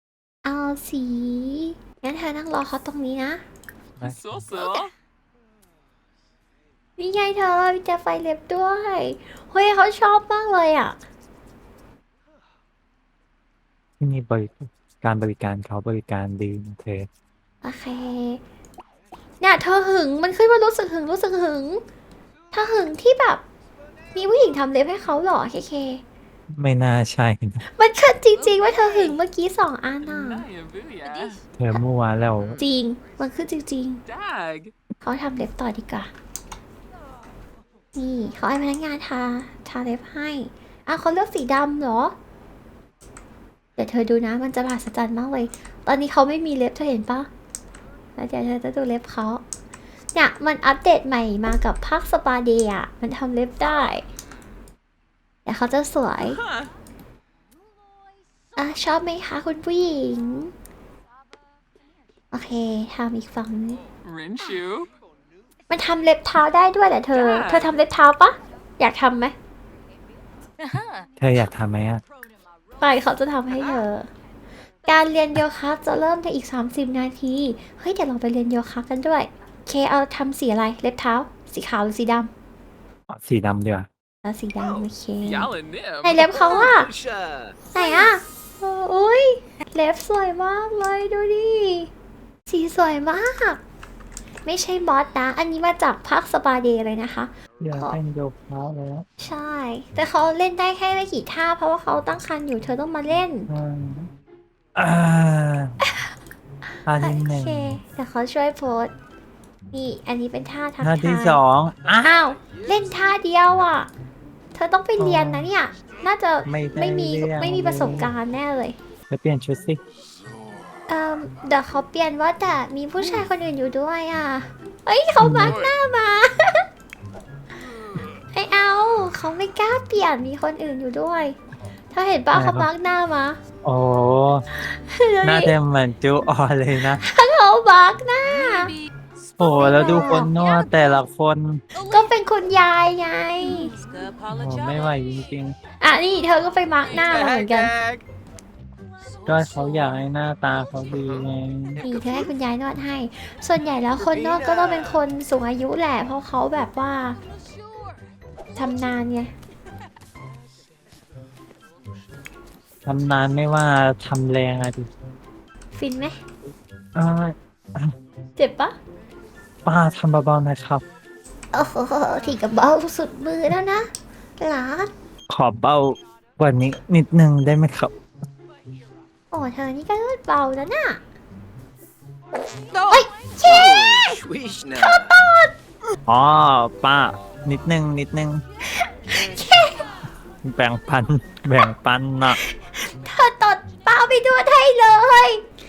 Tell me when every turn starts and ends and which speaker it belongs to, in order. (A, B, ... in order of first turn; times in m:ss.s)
0:00.4-0:03.4 A
0:04.0-0:04.5 B
0:04.0-0:04.9 C
0:07.0-0:11.0 A
0:14.0-0:17.1 B
0:17.6-0:18.4 A
0:19.4-0:21.8 A
0:22.5-0:23.4 A
0:24.1-0:26.0 A
0:26.5-0:27.6 B
0:27.8-0:30.5 A
0:30.1-0:31.4 C
0:31.1-0:31.4 D
0:31.6-0:32.6 B
0:32.6-0:34.0 A
0:34.1-0:34.7 C
0:35.0-0:36.1 A
0:38.0-0:42.1 A
0:43.8-0:47.3 A
0:48.2-0:49.4 A
0:50.1-0:54.0 A
0:55.5-0:56.4 A
0:58.6-1:00.5 A
1:02.3-1:03.8 A
1:04.0-1:04.9 C
1:05.7-1:09.4 A
1:07.1-1:07.7 C
1:10.6-1:11.1 D
1:11.2-1:12.0 B
1:12.8-1:14.1 A
1:14.9-1:22.3 A
1:23.1-1:23.9 B
1:24.2-1:26.9 A
1:24.6-1:24.9 E
1:25.9-1:27.6 E
1:27.7-1:31.9 A
1:32.5-1:33.6 A
1:34.4-1:38.0 A
1:37.6-1:39.1 B
1:39.2-1:43.5 A
1:43.5-1:44.1 B
1:44.8-1:45.8 B
1:46.9-1:47.8 B
1:47.0-1:48.9 A
1:49.7-1:51.4 A
1:50.8-1:52.2 B
1:52.0-1:53.9 A
1:54.6-1:58.8 A
1:55.0-1:55.5 B
1:56.4-1:58.1 B
1:59.1-1:59.8 B
2:00.9-2:06.6 A
2:05.2-2:05.6 B
2:08.3-2:11.4 A
2:11.9-2:13.4 A
2:12.3-2:12.7 B
2:13.6-2:14.5 B
2:14.6-2:15.6 A
2:15.2-2:17.0 B
2:17.0-2:18.8 A
2:19.3-2:20.7 D
2:19.4-2:21.6 B
2:19.5-2:20.3 A
2:21.8-2:22.1 D
2:21.9-2:23.7 A
2:23.4-2:24.9 D
2:24.3-2:25.6 B
2:25.8-2:27.7 A
2:27.0-2:28.0 E
2:29.2-2:30.0 D
2:29.3-2:31.8 B
2:31.8-2:32.3 E
2:31.8-2:37.2 A
2:34.0-2:34.9 E
2:38.6-2:39.3 A
2:42.9-2:44.9 B
2:45.7-2:46.2 A
2:47.0-2:47.9 B
2:48.4-2:48.7 A
2:49.6-2:50.8 B
2:51.5-2:54.9 A
2:55.3-2:57.9 B
2:59.3-3:01.0 A
3:02.9-3:04.2 A
3:03.4-3:05.1 E
3:04.8-3:05.5 A
3:06.1-3:08.4 B
3:08.8-3:09.8 A
3:10.4-3:12.4 B
3:12.3-3:15.4 A